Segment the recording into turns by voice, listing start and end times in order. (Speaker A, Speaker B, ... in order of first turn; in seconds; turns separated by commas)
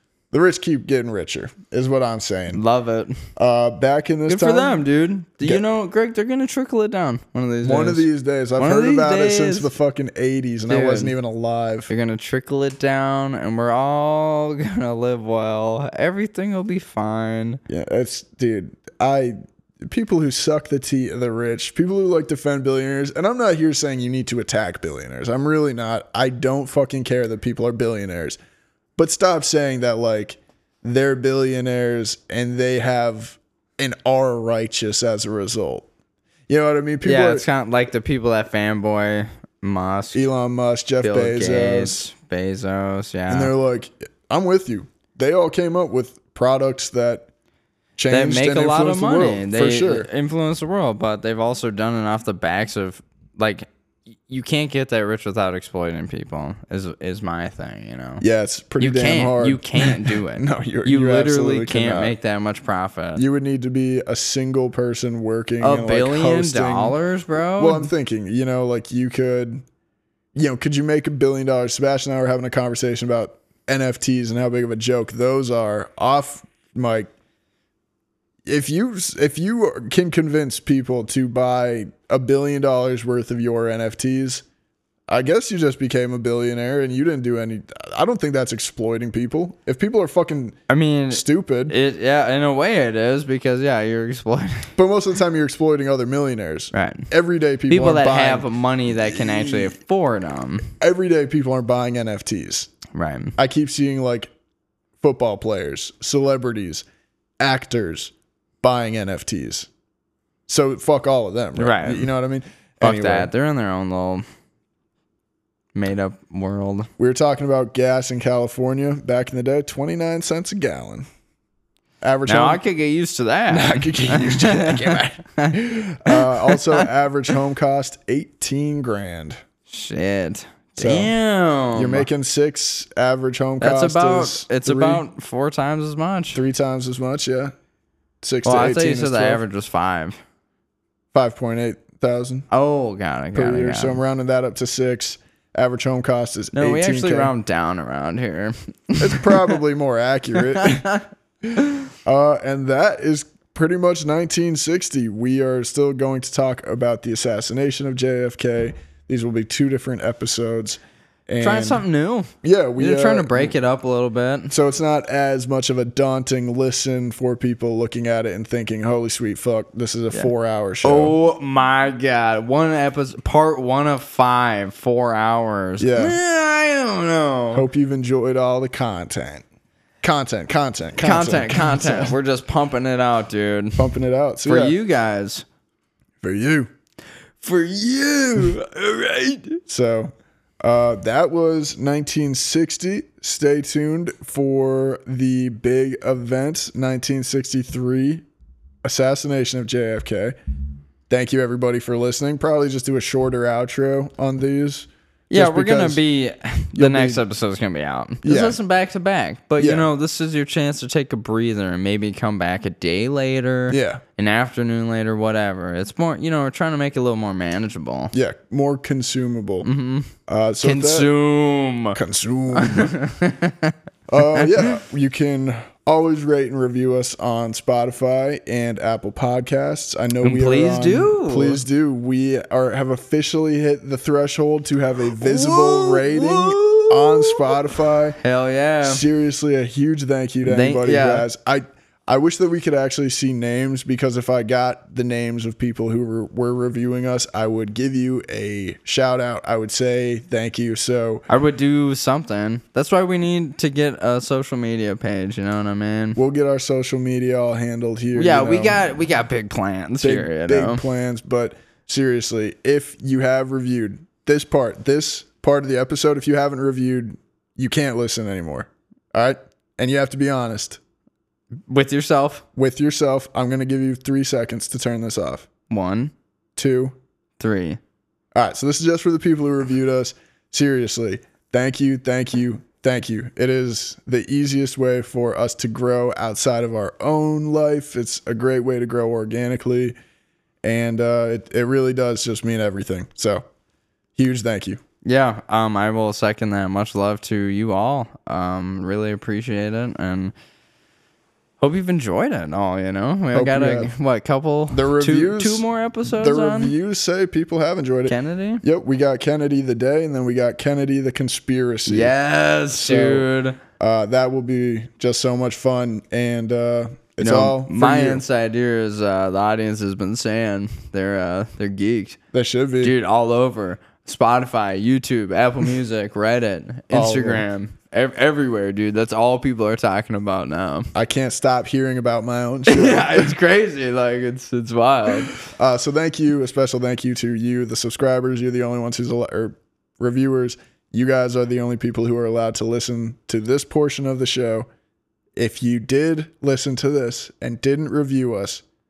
Speaker A: 0.3-2.6, Speaker B: 2.5-3.2, Speaker A: 3.4-4.8, Speaker B: 4.3-9.7, Speaker A: 7.6-11.9, Speaker B: 10.7-11.2, Speaker B: 11.9-17.6, Speaker A: 17.7-28.4, Speaker A: 29.0-35.9, Speaker A: 36.5-37.5, Speaker B: 37.0-40.2, Speaker A: 40.1-42.1, Speaker B: 41.0-43.5, Speaker A: 43.3-47.3, Speaker A: 48.0-50.1, Speaker B: 48.1-53.7, Speaker B: 54.3-58.2, Speaker A: 58.2-62.1, Speaker B: 58.8-63.2, Speaker A: 63.2-67.0, Speaker B: 65.6-67.9, Speaker A: 67.6-69.7, Speaker A: 70.3-77.1, Speaker A: 78.5-84.4, Speaker A: 85.1-90.6, Speaker B: 90.7-94.8, Speaker A: 91.1-91.8, Speaker A: 94.8-99.7, Speaker B: 96.7-97.1, Speaker B: 97.7-100.7, Speaker A: 100.8-102.7, Speaker B: 102.9-103.4, Speaker A: 103.4-104.3, Speaker A: 105.0-106.8, Speaker A: 107.4-109.7, Speaker A: 110.5-113.3, Speaker B: 111.6-112.1, Speaker B: 112.8-114.2, Speaker B: 115.8-116.9, Speaker A: 117.0-121.1, Speaker A: 122.0-122.6, Speaker B: 122.3-126.9, Speaker A: 123.5-129.4, Speaker B: 129.7-132.1, Speaker A: 130.8-131.1, Speaker A: 131.7-135.0, Speaker B: 133.6-136.4, Speaker A: 136.3-137.6, Speaker A: 138.2-139.4, Speaker B: 138.4-140.2, Speaker A: 141.1-142.5, Speaker B: 142.5-144.0, Speaker A: 143.3-147.3, Speaker B: 146.5-149.6, Speaker A: 149.0-150.9, Speaker B: 150.4-151.0, Speaker A: 152.1-161.8, Speaker B: 161.4-164.5, Speaker A: 162.4-163.5, Speaker A: 164.5-171.2, Speaker B: 170.8-177.7, Speaker A: 175.8-176.2, Speaker A: 177.5-179.4, Speaker A: 180.0-182.2, Speaker B: 181.0-183.9, Speaker A: 183.8-184.8, Speaker B: 184.4-185.4, Speaker A: 186.2-186.7, Speaker B: 187.4-189.6, Speaker A: 189.7-190.1, Speaker A: 190.6-198.2, Speaker A: 198.8-200.3, Speaker A: 201.1-206.0, Speaker B: 205.3-218.1, Speaker A: 206.8-207.2, Speaker A: 208.2-208.6, Speaker A: 209.6-209.9, Speaker A: 213.7-214.0, Speaker A: 218.1-219.7, Speaker B: 219.6-222.0, Speaker A: 220.3-221.1, Speaker A: 221.9-222.9, Speaker B: 222.5-223.8, Speaker A: 224.1-238.2, Speaker B: 224.3-224.8, Speaker B: 230.2-231.6, Speaker B: 235.2-239.0, Speaker A: 238.8-251.2, Speaker B: 240.4-241.3, Speaker B: 251.3-256.2, Speaker A: 256.2-258.8, Speaker B: 258.1-260.9, Speaker A: 260.0-270.8, Speaker B: 271.7-272.4, Speaker A: 272.6-275.5, Speaker B: 275.7-276.1, Speaker A: 276.6-276.9, Speaker B: 277.4-277.8, Speaker A: 278.4-289.9, Speaker A: 290.6-293.4, Speaker A: 294.2-294.8, Speaker B: 295.1-300.3, Speaker B: 301.6-306.7, Speaker A: 303.3-303.9, Speaker A: 304.7-312.1, Speaker B: 308.1-308.6, Speaker B: 311.9-313.6, Speaker A: 312.7-313.3, Speaker A: 313.8-318.2, Speaker B: 317.2-322.2, Speaker A: 322.3-322.9, Speaker B: 322.8-330.9, Speaker A: 326.9-327.4, Speaker A: 330.9-333.4, Speaker B: 332.7-335.4, Speaker A: 335.3-344.7, Speaker A: 345.4-348.6